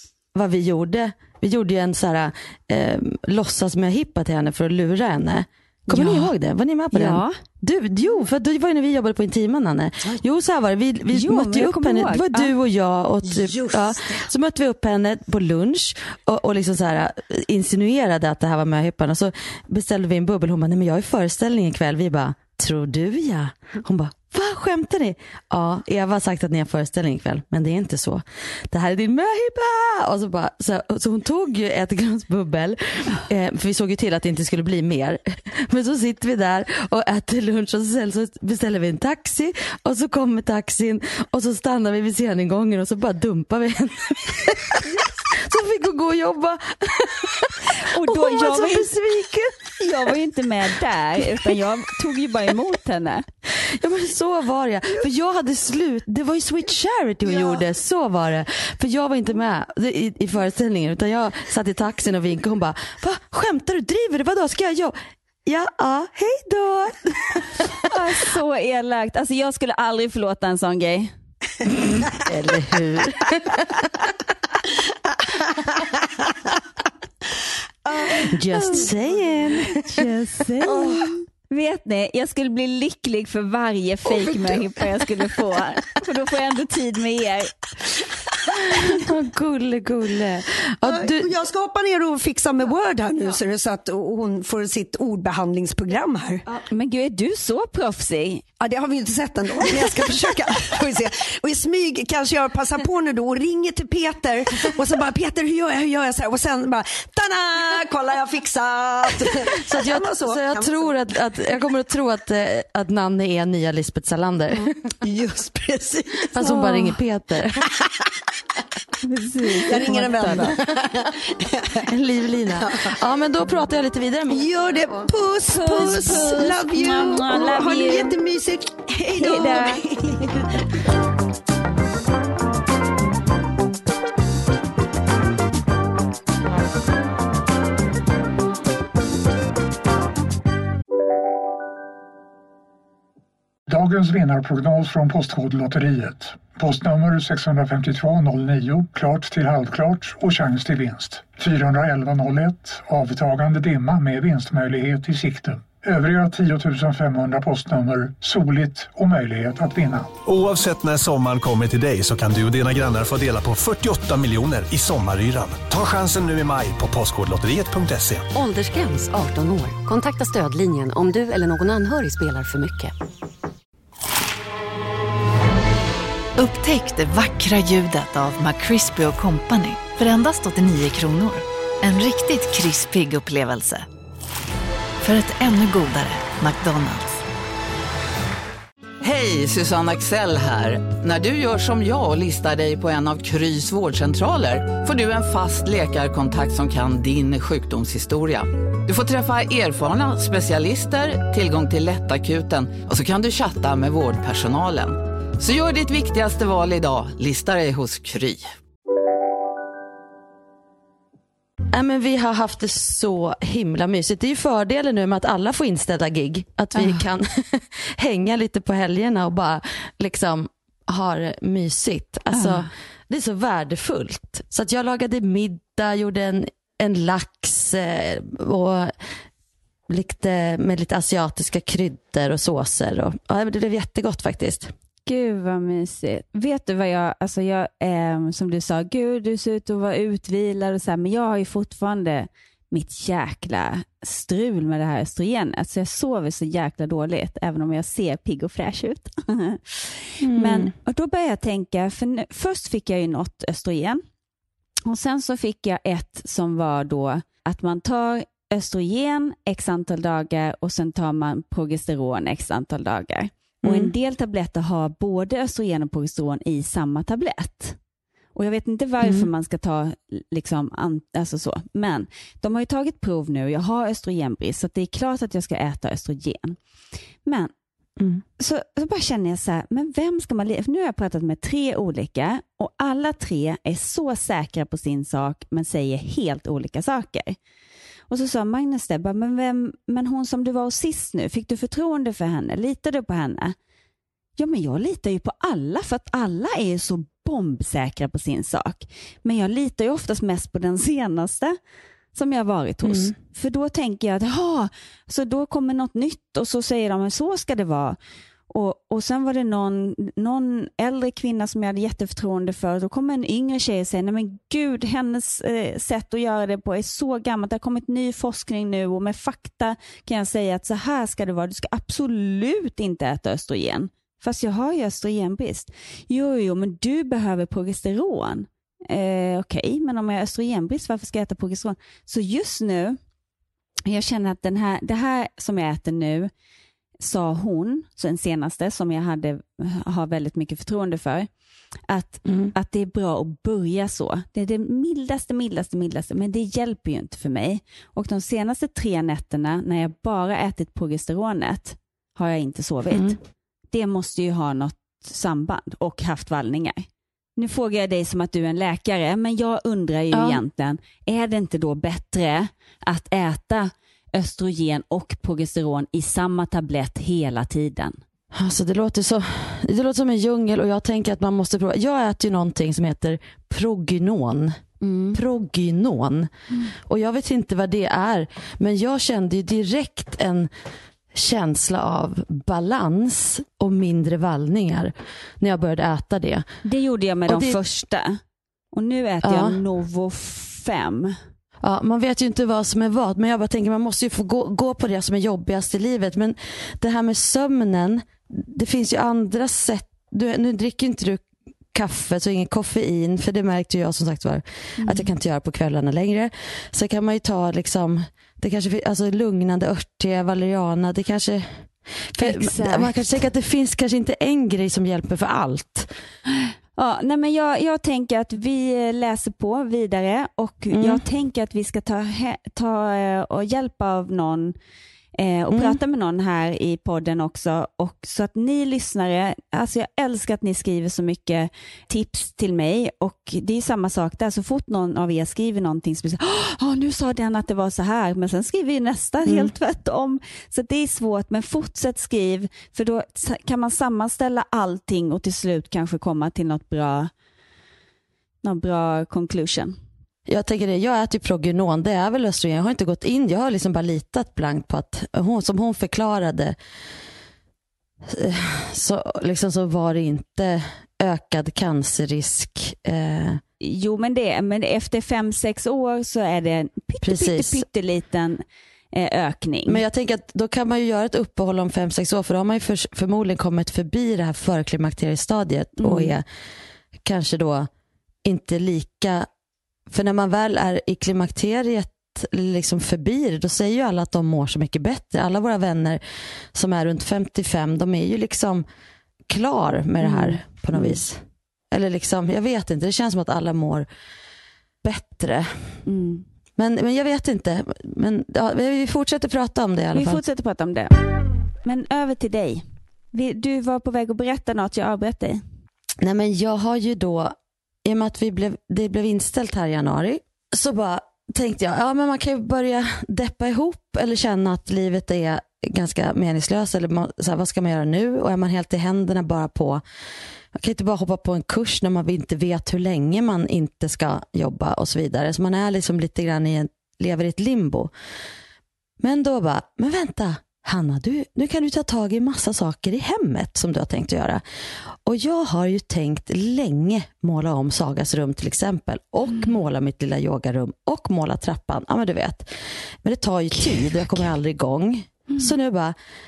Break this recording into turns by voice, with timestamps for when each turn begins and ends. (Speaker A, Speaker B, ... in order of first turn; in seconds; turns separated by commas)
Speaker A: 0.3-47.5, Speaker B: 5.9-6.3, Speaker B: 6.9-7.4, Speaker B: 11.1-12.5, Speaker B: 47.7-48.9, Speaker A: 48.0-49.7, Speaker B: 49.8-53.2, Speaker A: 53.5-67.6, Speaker C: 57.3-57.6, Speaker B: 67.8-71.1, Speaker A: 71.8-73.6, Speaker C: 77.9-78.2, Speaker A: 78.2-79.9, Speaker B: 78.6-78.8, Speaker B: 79.7-87.7, Speaker A: 80.7-81.0, Speaker A: 88.8-91.3, Speaker C: 90.8-96.4, Speaker B: 96.7-98.4, Speaker C: 98.6-110.8, Speaker A: 109.5-114.7, Speaker C: 114.6-116.8, Speaker A: 116.3-117.7, Speaker B: 119.0-120.6, Speaker C: 119.6-121.8, Speaker A: 121.8-124.5, Speaker C: 122.6-122.9, Speaker C: 124.3-130.5, Speaker B: 125.5-128.2, Speaker B: 129.1-129.9, Speaker D: 143.7-160.2, Speaker E: 160.3-168.3, Speaker F: 168.3-172.9, Speaker G: 176.4-183.9, Speaker G: 185.0-187.2, Speaker H: 189.0-208.4, Speaker A: 211.7-229.0, Speaker B: 216.8-217.0, Speaker B: 222.3-222.7, Speaker A: 229.9-234.7, Speaker B: 235.1-254.0, Speaker A: 250.2-250.7, Speaker B: 254.9-267.8, Speaker A: 263.6-263.9, Speaker B: 268.4-276.6, Speaker A: 269.0-269.3, Speaker B: 277.2-277.5, Speaker A: 278.0-278.2, Speaker B: 278.4-287.4, Speaker B: 288.1-293.6, Speaker B: 294.4-301.6, Speaker B: 302.1-308.0, Speaker A: 302.8-303.1, Speaker B: 308.5-333.0, Speaker B: 333.9-336.3, Speaker B: 337.0-341.3, Speaker B: 341.9-353.2, Speaker A: 342.2-342.5, Speaker A: 352.9-353.2, Speaker B: 353.7-368.0, Speaker A: 360.1-360.4, Speaker A: 368.3-380.5, Speaker F: 374.9-375.1, Speaker A: 381.1-386.5, Speaker B: 386.6-388.2, Speaker A: 387.3-387.6, Speaker B: 388.7-391.2, Speaker A: 389.2-389.6, Speaker A: 391.6-401.2, Speaker A: 401.7-415.9, Speaker B: 404.8-405.1, Speaker B: 412.2-413.2, Speaker B: 416.4-424.6, Speaker A: 420.7-421.0, Speaker B: 425.2-447.1, Speaker A: 425.5-425.8, Speaker A: 439.2-439.5, Speaker B: 448.4-449.8, Speaker A: 450.3-456.6, Speaker A: 458.0-463.4, Speaker B: 463.6-469.8, Speaker A: 467.0-467.6, Speaker A: 469.7-476.2, Speaker B: 475.8-476.1, Speaker A: 477.1-477.7, Speaker A: 478.2-479.3, Speaker A: 479.9-486.0, Speaker A: 486.5-488.6, Speaker A: 489.3-493.9, Speaker B: 490.0-491.0, Speaker A: 494.8-495.5, Speaker B: 495.9-496.2, Speaker A: 496.6-500.2, Speaker B: 499.9-500.9, Speaker B: 501.6-505.4, Speaker A: 506.0-507.3, Speaker A: 507.9-519.8, Speaker A: 520.5-527.9, Speaker A: 529.0-534.4, Speaker A: 535.0-542.5, Speaker A: 543.0-546.0